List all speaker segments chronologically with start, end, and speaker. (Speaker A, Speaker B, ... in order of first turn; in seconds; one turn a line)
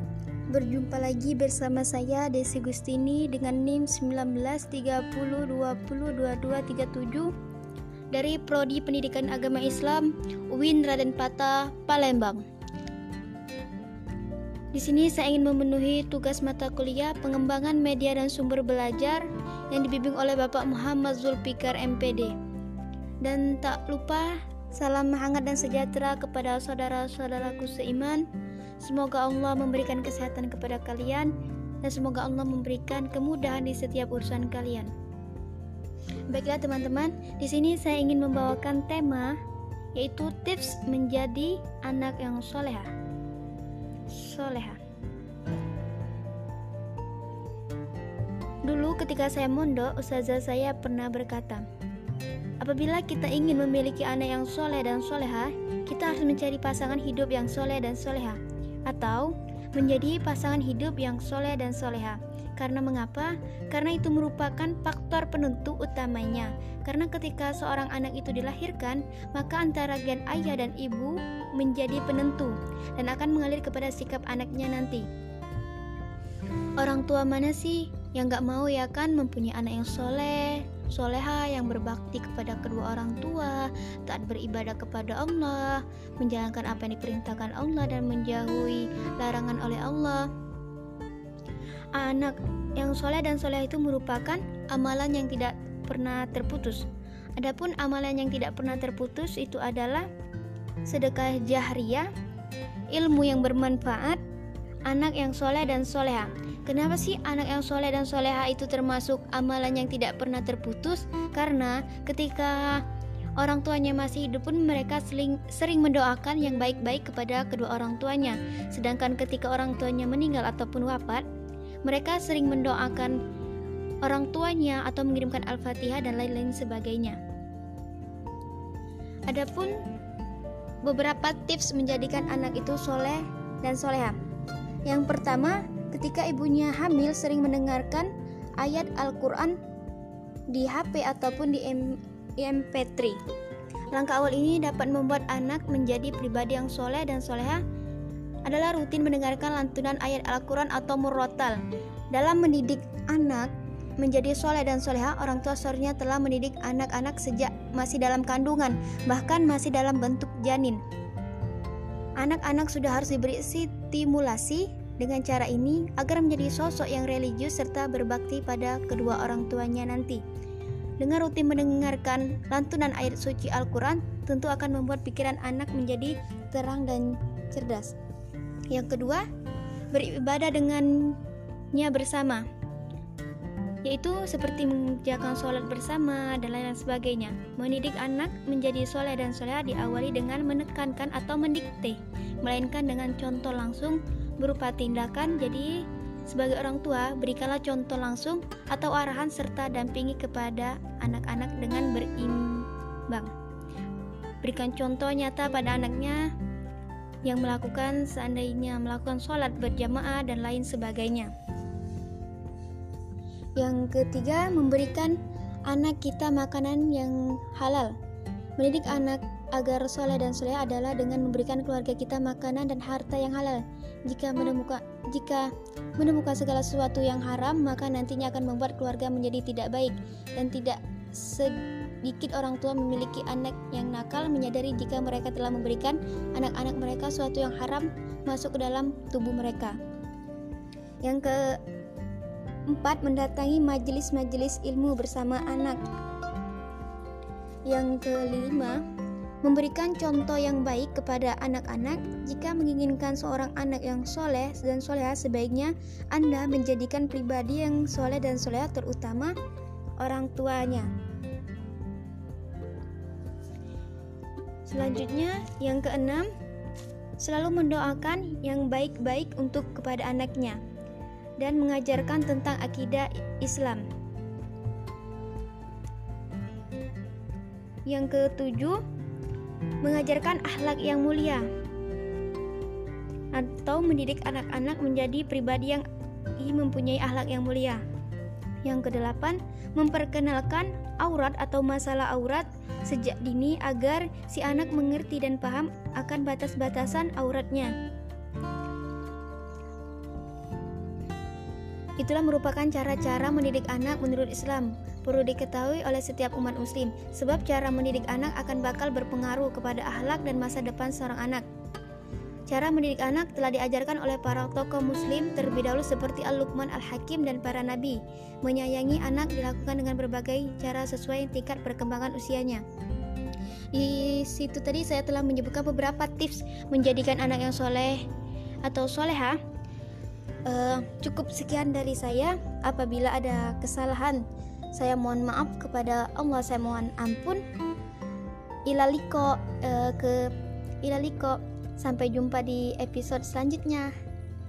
Speaker A: 0.5-7.3
Speaker A: 8.1-12.4
Speaker A: 14.7-22.3
Speaker A: 23.2-28.2
Speaker A: 28.8-31.3
Speaker A: 31.8-34.9
Speaker A: 36.3-39.4
Speaker A: 40.0-42.9
Speaker A: 44.1-44.8
Speaker A: 48.7-51.6
Speaker A: 52.6-75.1
Speaker A: 76.8-90.3
Speaker A: 92.0-100.1
Speaker A: 100.8-102.1
Speaker A: 102.9-104.2
Speaker A: 104.9-112.8
Speaker A: 113.4-121.2
Speaker A: 121.8-123.2
Speaker A: 124.0-127.2
Speaker A: 129.3-129.8
Speaker A: 130.8-134.2
Speaker A: 134.9-139.6
Speaker A: 140.5-143.2
Speaker A: 143.9-147.6
Speaker A: 148.4-151.6
Speaker A: 152.1-160.8
Speaker A: 162.2-170.2
Speaker A: 171.0-178.0
Speaker A: 178.7-179.2
Speaker A: 179.9-181.2
Speaker A: 181.7-182.4
Speaker A: 183.8-203.3
Speaker A: 204.4-206.3
Speaker A: 207.2-211.3
Speaker A: 213.6-218.0
Speaker A: 218.6-239.8
Speaker A: 241.0-241.6
Speaker A: 242.7-245.8
Speaker A: 247.7-248.8
Speaker A: 249.4-259.4
Speaker A: 260.0-260.9
Speaker A: 264.7-266.3
Speaker A: 267.2-270.6
Speaker A: 271.4-273.9
Speaker A: 277.9-278.8
Speaker A: 279.8-281.5
Speaker A: 283.3-285.9
Speaker A: 286.4-287.8
Speaker A: 288.6-297.7
Speaker A: 302.0-311.4
Speaker A: 312.5-322.6
Speaker A: 323.7-328.0
Speaker A: 328.6-329.4
Speaker A: 330.5-334.2
Speaker A: 334.7-337.4
Speaker A: 338.7-343.9